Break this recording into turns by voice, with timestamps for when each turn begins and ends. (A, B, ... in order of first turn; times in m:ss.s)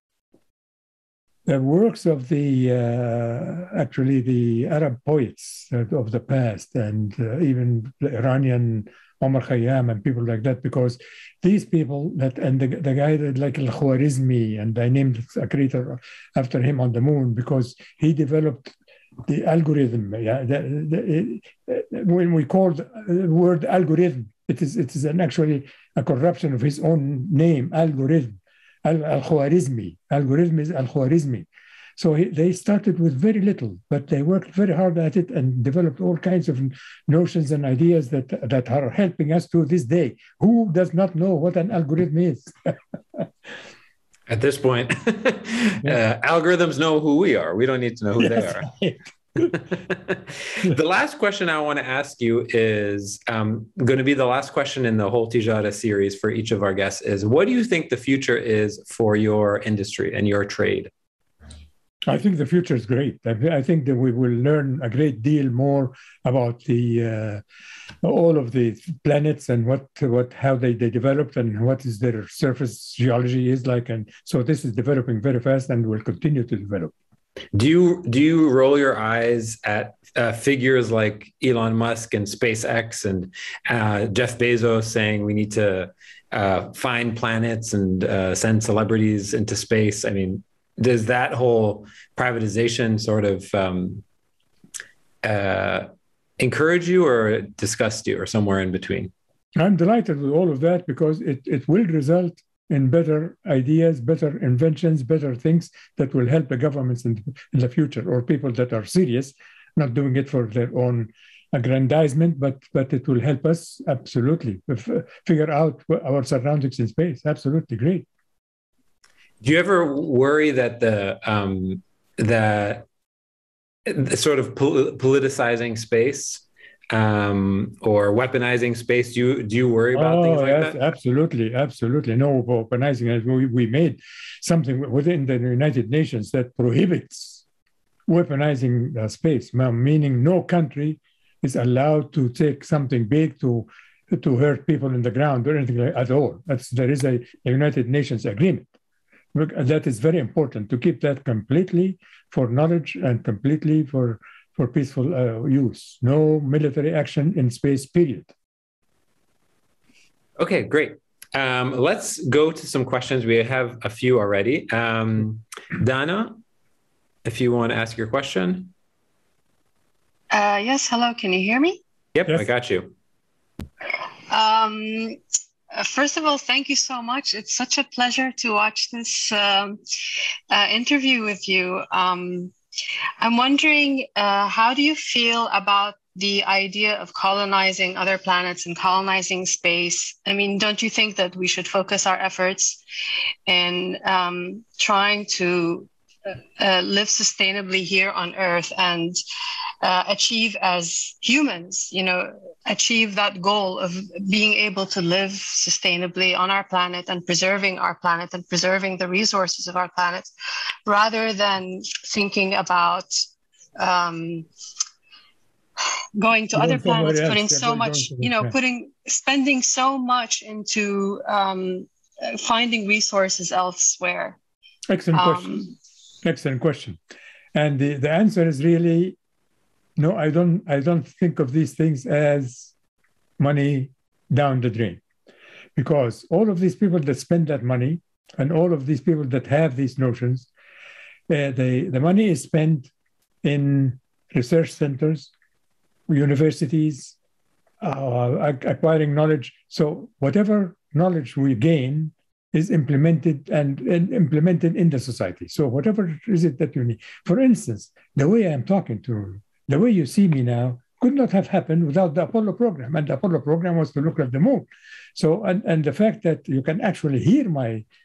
0:01.5-0:18.7 A
0:19.3-0:43.3 A
0:44.3-0:48.7 B
0:48.2-0:49.5 A
0:49.4-1:00.9 B
1:02.1-1:07.4 A
1:08.0-1:16.9 A
1:17.5-1:34.0 B
1:35.2-1:39.1 B
1:39.6-1:58.1 A
1:59.4-2:02.8 B
2:03.9-2:10.8 B
2:09.9-2:17.4 A
2:18.1-2:28.7 A
2:29.3-2:38.3 A
2:40.4-2:46.4 B
2:47.2-2:48.7 B
2:50.3-2:51.8 C
2:52.1-2:52.9 B
2:54.3-2:55.2 C
2:55.7-2:59.8 C
3:00.5-3:02.5 C
3:03.2-3:12.8 C
3:13.5-3:19.2 C
3:19.8-3:30.3 C
3:30.9-3:33.2 C
3:33.8-3:34.5 C
3:36.2-3:44.4 C
3:36.5-3:38.5 A
3:44.9-3:47.0 A
3:45.1-3:45.7 C
3:47.5-3:49.2 A
3:50.0-3:52.7 A
3:53.4-3:55.0 A
3:55.8-4:00.5 A
4:01.3-4:02.9 A
4:03.4-4:05.3 A
4:06.1-4:07.2 A
4:07.8-4:27.8 A